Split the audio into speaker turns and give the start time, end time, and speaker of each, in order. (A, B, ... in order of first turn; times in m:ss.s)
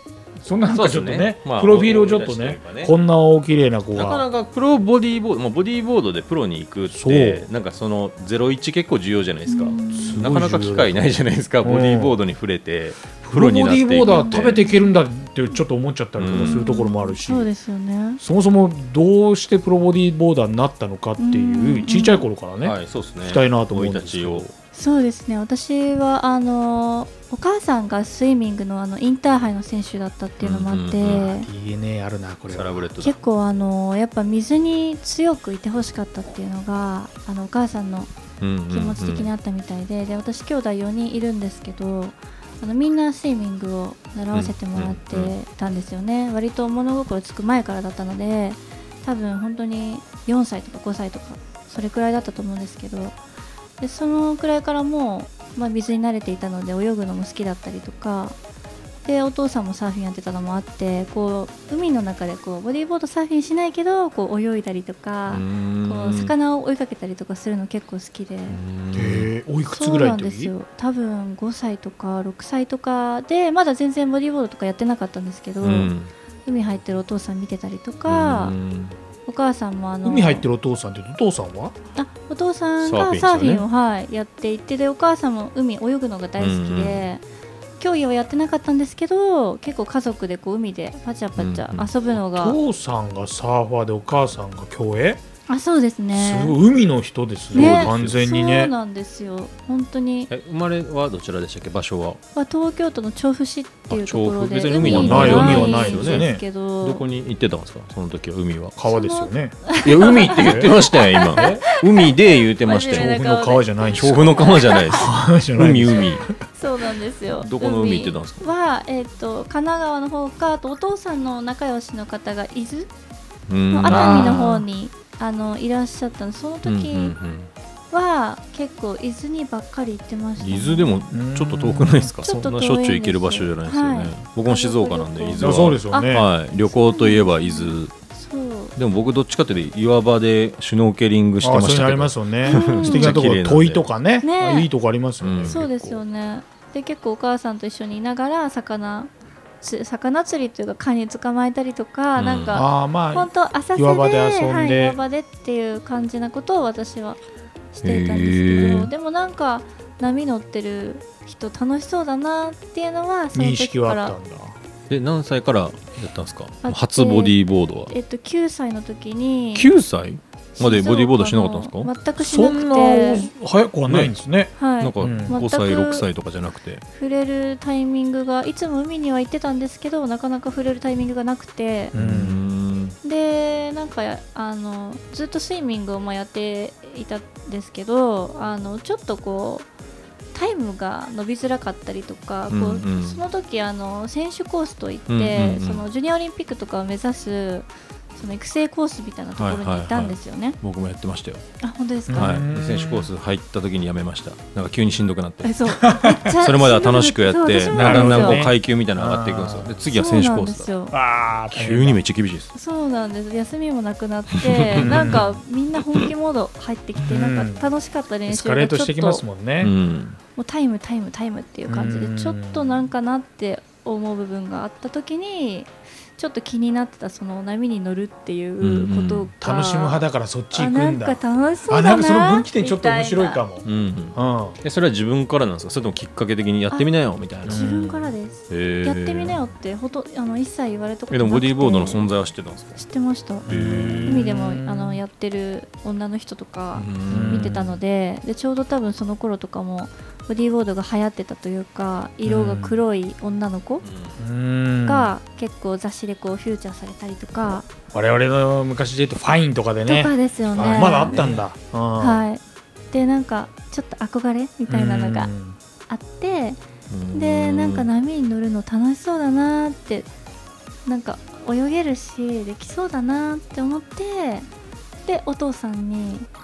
0:00.4-0:04.3 A
0:00.7-0:02.9 B
0:04.0-0:14.6 B
0:06.9-0:07.4 A
0:09.5-0:10.3 C
0:09.9-0:11.0 A
0:11.6-0:12.2 A
0:13.3-0:17.5 A
0:14.1-0:14.9 C
0:16.2-0:16.6 B
0:16.4-0:18.2 C
0:18.2-0:24.5 A
0:21.2-0:22.3 C
0:22.6-0:24.5 B
0:24.7-0:31.5 C
0:30.4-0:31.3 B
0:31.2-0:32.9 A
0:32.5-0:33.2 B
0:33.0-0:38.1 C
0:38.4-0:39.3 B
0:38.7-0:53.2 C
0:44.3-0:45.3 B
0:53.8-0:58.4 C
0:59.0-1:08.6 C
1:05.3-1:06.3 B
1:08.5-1:09.3 B
1:08.9-1:10.5 A
1:09.7-1:15.9 C
1:15.6-1:16.1 B
1:16.5-1:18.6 C
1:18.1-1:19.0 B
1:19.3-1:20.5 C
1:20.0-1:21.8 A
1:22.0-1:27.2 C
1:22.8-1:23.7 B
1:26.4-1:27.0 B
1:27.8-1:32.6 C
1:31.4-1:31.9 B
1:32.2-1:35.2 A
1:35.5-1:36.6 C
1:36.1-1:38.7 A
1:37.5-1:38.2 B
1:37.5-1:40.3 C
1:40.3-1:42.2 B
1:42.4-1:47.0 C
1:43.9-1:48.8 B
1:44.8-1:46.4 A
1:48.8-1:49.7 A
1:48.9-1:53.7 C
1:49.8-1:53.2 B
1:50.2-1:51.7 A
1:52.9-1:56.4 A
1:53.9-1:56.3 B
1:54.6-1:54.8 C
1:56.6-2:02.9 C
1:57.3-1:58.5 B
2:03.5-2:04.7 B
2:03.7-2:07.2 C
2:03.9-2:04.3 A
2:06.6-2:07.5 B
2:07.9-2:11.0 C
2:10.4-2:17.9 B
2:11.1-2:12.1 A
2:12.2-2:18.7 C
2:15.4-2:16.3 A
2:18.8-2:23.8 B
2:21.4-2:26.0 A
2:22.4-2:23.2 C
2:24.2-2:24.7 C
2:25.2-2:25.7 B
2:25.5-2:29.1 C
2:29.6-2:37.2 C
2:32.2-2:32.6 B
2:32.5-2:35.0 A
2:37.8-2:44.2 C
2:37.8-2:38.9 B
2:43.3-2:44.6 A
2:44.9-2:47.9 B
2:46.6-2:47.3 C
2:47.9-2:49.7 C
2:49.6-2:51.9 B
2:50.6-2:53.3 C
2:52.2-2:55.4 A
2:53.9-2:54.1 B
2:54.6-2:56.1 C
2:54.8-2:56.8 B
2:56.9-3:01.9 C
3:01.9-3:02.5 A
3:01.9-3:03.0 B
3:03.0-3:09.7 C
3:10.3-3:20.6 C
3:12.5-3:13.2 B
3:15.1-3:15.8 B
3:19.4-3:21.4 B
3:21.6-3:22.4 C
3:22.1-3:23.1 A
3:22.1-3:25.6 B
3:25.4-3:28.4 C
3:25.8-3:26.2 A
3:26.3-3:30.7 B
3:27.7-3:29.8 A
3:29.9-3:30.9 C
3:30.9-3:32.0 A
3:31.5-3:32.5 B
3:32.5-3:39.2 C
3:34.3-3:35.3 B
3:34.8-3:35.3 A
3:37.1-3:37.7 A
3:38.3-3:39.7 A
3:39.6-3:40.2 B
3:40.4-3:53.4 C
3:41.7-3:42.8 A
3:48.6-3:49.3 B
3:49.4-3:54.6 A
3:53.6-3:57.8 B
3:57.4-3:58.1 A
3:57.4-4:02.0 C
3:58.5-3:59.4 B
4:01.1-4:02.8 B
4:02.8-4:03.5 C
4:03.5-4:04.2 B
4:03.5-4:05.0 A
4:04.1-4:13.8 C
4:06.8-4:07.6 B
4:07.1-4:07.8 A
4:12.2-4:12.8 A
4:13.8-4:14.2 B
4:14.2-4:15.1 A
4:14.9-4:17.7 C
4:17.9-4:22.3 A
4:19.9-4:21.2 C
4:20.5-4:21.4 B
4:22.0-4:22.4 C
4:22.9-4:25.3 C
4:24.7-4:25.6 A
4:25.9-4:26.6 C
4:26.9-4:27.9 B
4:27.1-4:30.1 C
4:30.9-4:34.5 C
4:35.1-4:36.3 C